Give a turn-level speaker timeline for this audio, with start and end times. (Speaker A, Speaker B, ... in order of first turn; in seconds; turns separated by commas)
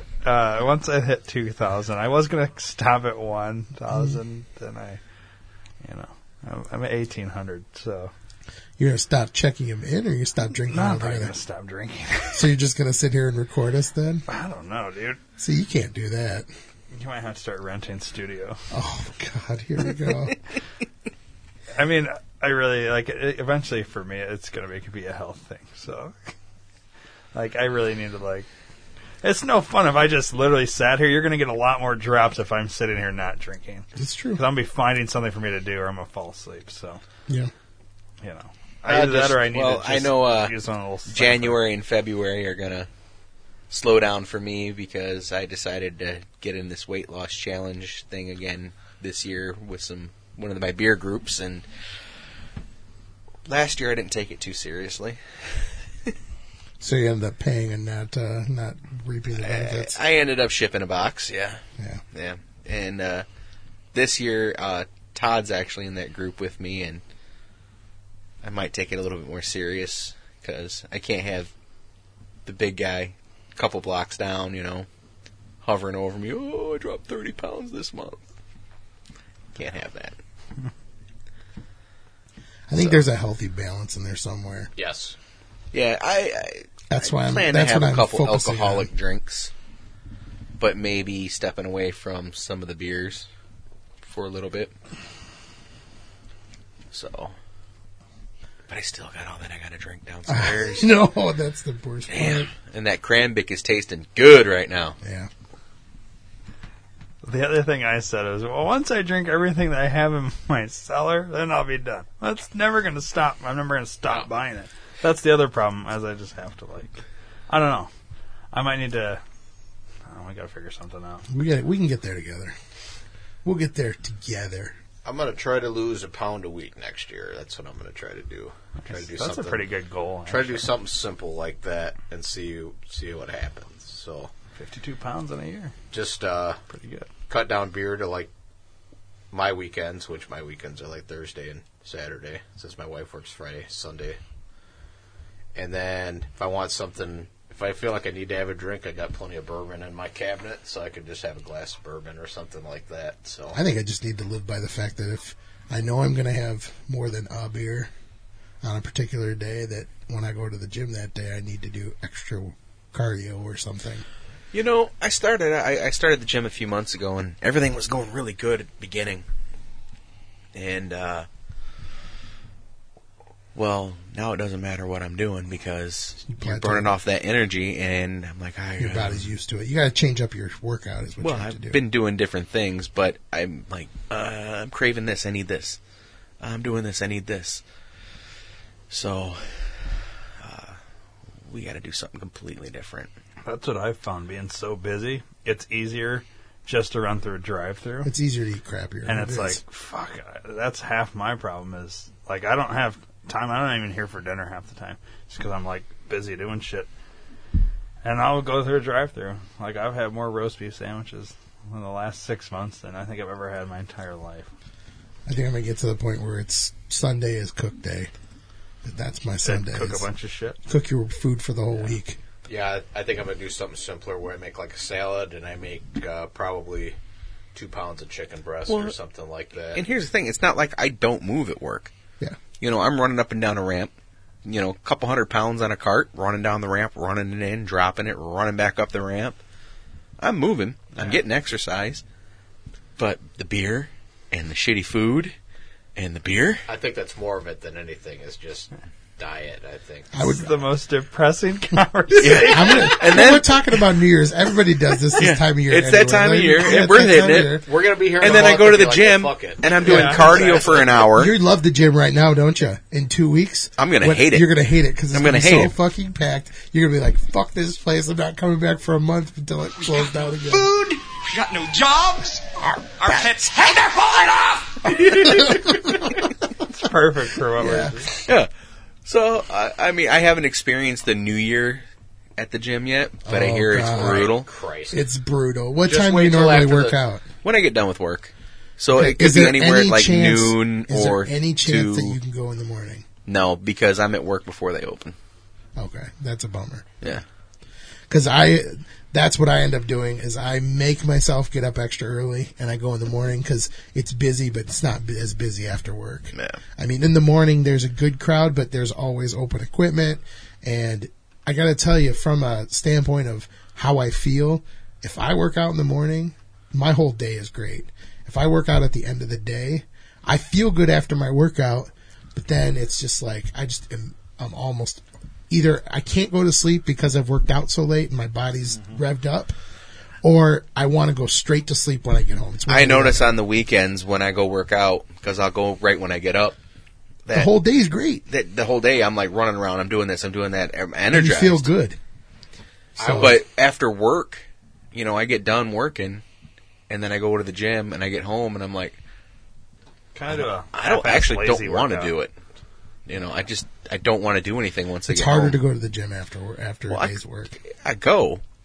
Speaker A: 0.2-5.0, Speaker B: 3.9-4.2, Speaker A: 5.8-8.1, Speaker B: 8.8-11.3, Speaker A: 10.7-12.4, Speaker B: 12.3-14.2, Speaker A: 14.3-15.2, Speaker B: 15.4-16.5, Speaker A: 16.9-18.6, Speaker B: 18.7-20.4, Speaker A: 21.7-26.3, Speaker A: 27.3-28.5, Speaker A: 29.2-37.0, Speaker B: 34.0-34.4, Speaker A: 38.2-41.6, Speaker C: 38.8-42.9, Speaker C: 43.7-51.6, Speaker C: 53.5-56.1, Speaker B: 56.8-60.0, Speaker C: 59.4-61.6, Speaker C: 62.1-63.2, Speaker C: 63.9-67.0, Speaker C: 68.4-71.5, Speaker C: 72.5-74.9, Speaker C: 75.6-78.2, Speaker C: 79.5-80.2, Speaker B: 82.7-84.7, Speaker D: 84.8-85.2, Speaker C: 85.7-89.5, Speaker B: 86.9-88.9, Speaker C: 90.6-93.3, Speaker C: 94.0-94.7, Speaker C: 96.9-97.3, Speaker C: 98.7-100.9, Speaker B: 100.3-102.5, Speaker C: 102.1-105.0, Speaker B: 105.0-105.3, Speaker A: 107.2-117.9, Speaker A: 118.5-119.2, Speaker A: 120.0-121.2, Speaker B: 121.3-122.5, Speaker B: 123.4-124.8, Speaker D: 125.0-129.7, Speaker A: 128.8-130.7, Speaker D: 130.3-134.3, Speaker A: 134.6-135.7, Speaker D: 135.9-136.6, Speaker A: 136.7-137.1, Speaker D: 137.3-138.3, Speaker D: 139.3-144.2, Speaker D: 145.5-153.6, Speaker B: 153.5-157.9, Speaker B: 158.6-164.0, Speaker C: 164.5-169.2, Speaker C: 170.5-171.3, Speaker C: 173.5-179.2, Speaker B: 176.3-176.9, Speaker B: 178.8-181.8, Speaker C: 181.2-185.8, Speaker C: 186.4-187.6, Speaker C: 188.9-190.8, Speaker C: 191.5-193.1, Speaker A: 193.4-198.1, Speaker B: 198.0-199.6, Speaker A: 199.1-206.9, Speaker A: 208.0-214.5, Speaker B: 215.2-218.1, Speaker B: 218.8-220.1, Speaker A: 219.4-220.6, Speaker B: 220.7-222.2, Speaker D: 222.5-226.9, Speaker D: 227.5-229.8, Speaker C: 228.7-228.9, Speaker C: 229.7-231.9, Speaker C: 232.6-233.9, Speaker C: 234.4-239.4, Speaker C: 240.2-242.0, Speaker C: 243.0-245.3, Speaker C: 245.9-246.7, Speaker D: 246.7-250.4, Speaker B: 250.1-250.4, Speaker A: 250.2-253.0, Speaker B: 252.1-257.7, Speaker C: 252.2-253.6, Speaker C: 255.1-257.6, Speaker D: 257.6-261.1, Speaker C: 258.2-261.3, Speaker A: 259.8-260.8, Speaker B: 261.1-270.7, Speaker C: 263.8-264.5, Speaker C: 265.1-265.7, Speaker E: 269.8-275.2, Speaker C: 274.8-276.3, Speaker B: 275.3-275.7, Speaker A: 276.7-278.1, Speaker B: 277.6-278.1, Speaker C: 278.2-278.5, Speaker C: 279.0-281.8, Speaker C: 282.4-284.5, Speaker B: 283.2-284.3, Speaker D: 283.9-285.0, Speaker B: 284.9-287.3, Speaker D: 285.8-287.0, Speaker C: 287.4-292.2, Speaker B: 288.9-293.1, Speaker C: 293.2-295.1, Speaker B: 295.8-296.9, Speaker B: 298.1-329.5, Speaker B: 330.2-333.3, Speaker C: 332.7-336.6, Speaker C: 337.2-337.5, Speaker B: 337.3-338.2, Speaker C: 338.3-341.6, Speaker B: 341.1-342.0, Speaker B: 343.0-343.4, Speaker D: 343.0-343.4, Speaker C: 343.0-346.2, Speaker C: 346.9-349.0, Speaker A: 350.1-352.1, Speaker C: 350.3-352.3, Speaker C: 353.1-355.6, Speaker B: 355.1-357.6, Speaker C: 356.9-358.4